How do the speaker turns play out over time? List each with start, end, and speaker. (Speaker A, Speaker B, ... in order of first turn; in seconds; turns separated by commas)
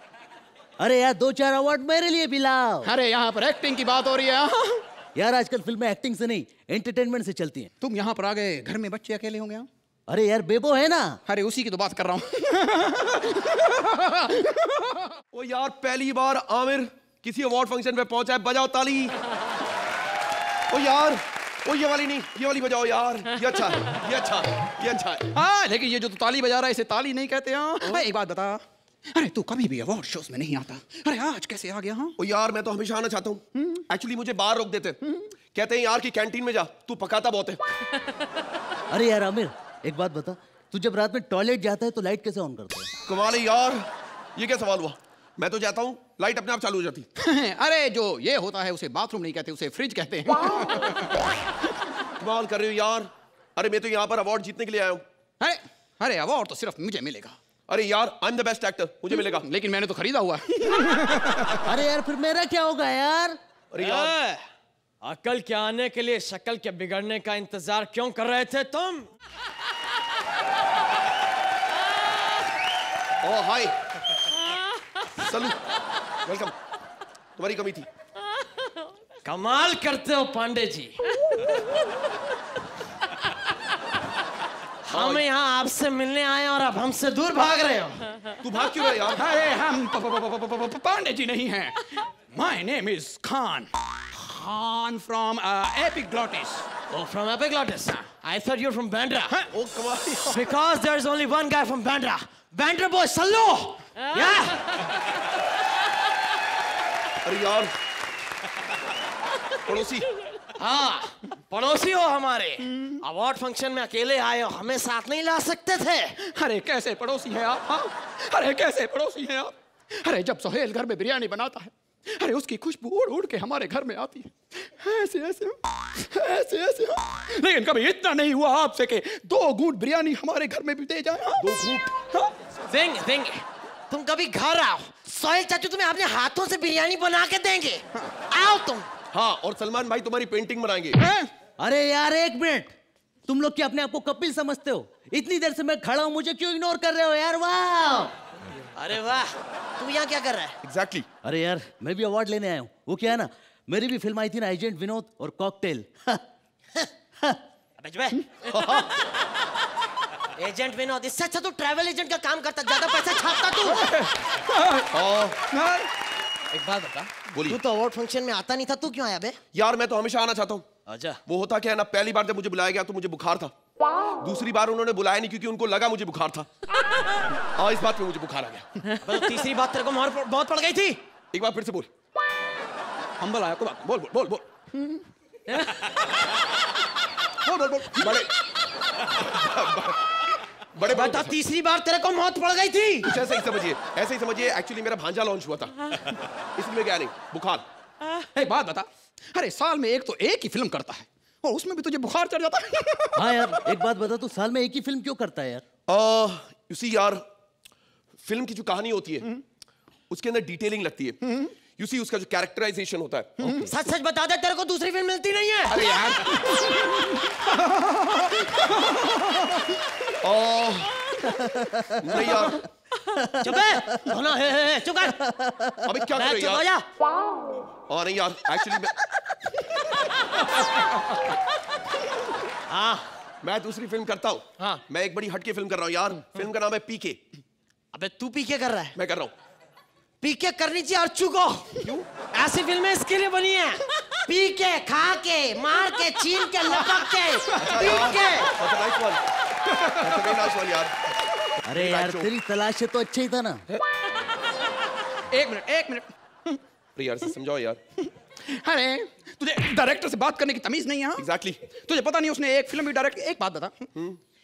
Speaker A: 0.8-2.9, Speaker B: 2.8-4.8, Speaker A: 5.2-7.7, Speaker B: 7.8-9.7, Speaker A: 10.1-11.2, Speaker B: 11.3-15.2, Speaker C: 15.3-19.1, Speaker C: 20.7-25.3, Speaker B: 25.3-28.6, Speaker B: 29.1-32.1, Speaker C: 32.2-35.0, Speaker C: 35.5-37.6, Speaker A: 38.9-42.9, Speaker C: 43.1-47.1, Speaker B: 47.2-51.0, Speaker C: 52.2-55.0, Speaker B: 55.4-57.4, Speaker C: 57.7-59.5, Speaker B: 59.2-61.5, Speaker A: 61.6-63.4, Speaker C: 63.7-64.2, Speaker D: 63.8-64.3, Speaker D: 65.0-69.1, Speaker C: 73.2-73.7, Speaker C: 75.2-75.6, Speaker C: 76.2-76.5, Speaker C: 77.4-77.9, Speaker D: 79.2-81.0, Speaker D: 84.9-88.0, Speaker C: 84.9-85.2, Speaker C: 88.4-89.2, Speaker B: 89.2-96.7, Speaker D: 96.9-99.4, Speaker B: 99.3-99.6, Speaker C: 99.5-100.4, Speaker D: 100.2-104.6, Speaker C: 107.2-107.7, Speaker C: 109.7-110.1, Speaker D: 110.6-116.2, Speaker B: 116.2-132.3, Speaker C: 131.4-131.9, Speaker D: 132.7-138.9, Speaker C: 139.1-141.0, Speaker B: 141.0-141.3, Speaker A: 141.6-142.7, Speaker A: 143.3-148.1, Speaker D: 148.8-150.5, Speaker C: 150.6-151.1, Speaker A: 151.2-156.2, Speaker D: 157.8-158.2, Speaker C: 158.5-158.9, Speaker D: 160.4-163.8, Speaker B: 163.8-164.9, Speaker C: 164.9-165.4, Speaker B: 165.5-165.9, Speaker C: 167.3-167.6, Speaker D: 167.5-169.4, Speaker C: 169.5-170.7, Speaker A: 170.9-171.2, Speaker C: 171.3-173.5, Speaker C: 174.2-176.5, Speaker C: 177.6-178.7, Speaker D: 179.1-181.0, Speaker C: 181.3-181.9, Speaker C: 183.2-184.4, Speaker B: 184.8-185.0, Speaker B: 187.4-188.2, Speaker C: 187.9-188.3, Speaker C: 189.2-190.0, Speaker C: 190.8-191.4, Speaker D: 190.9-193.1, Speaker C: 193.1-195.7, Speaker C: 196.6-197.7, Speaker B: 198.4-203.3, Speaker A: 203.2-205.6, Speaker C: 205.9-207.2, Speaker C: 208.2-209.3, Speaker C: 210.1-211.2, Speaker B: 211.2-211.5, Speaker C: 211.8-213.6, Speaker B: 213.4-213.7, Speaker D: 213.6-215.8, Speaker B: 215.7-217.0, Speaker C: 215.8-216.2, Speaker B: 217.6-219.4, Speaker C: 220.2-220.9, Speaker C: 222.0-222.6, Speaker D: 223.4-225.2, Speaker C: 225.9-226.7, Speaker D: 226.1-226.8, Speaker C: 227.9-228.9, Speaker D: 232.7-233.1, Speaker C: 233.4-237.2, Speaker D: 237.9-238.9, Speaker C: 239.0-239.3, Speaker D: 240.2-241.7, Speaker D: 242.3-248.5, Speaker B: 247.5-247.9, Speaker C: 247.6-249.2, Speaker B: 249.7-250.3, Speaker C: 250.0-250.9, Speaker A: 251.6-253.6, Speaker C: 251.8-252.3, Speaker B: 255.3-256.6, Speaker C: 257.0-257.8, Speaker B: 258.4-263.9, Speaker C: 261.2-261.6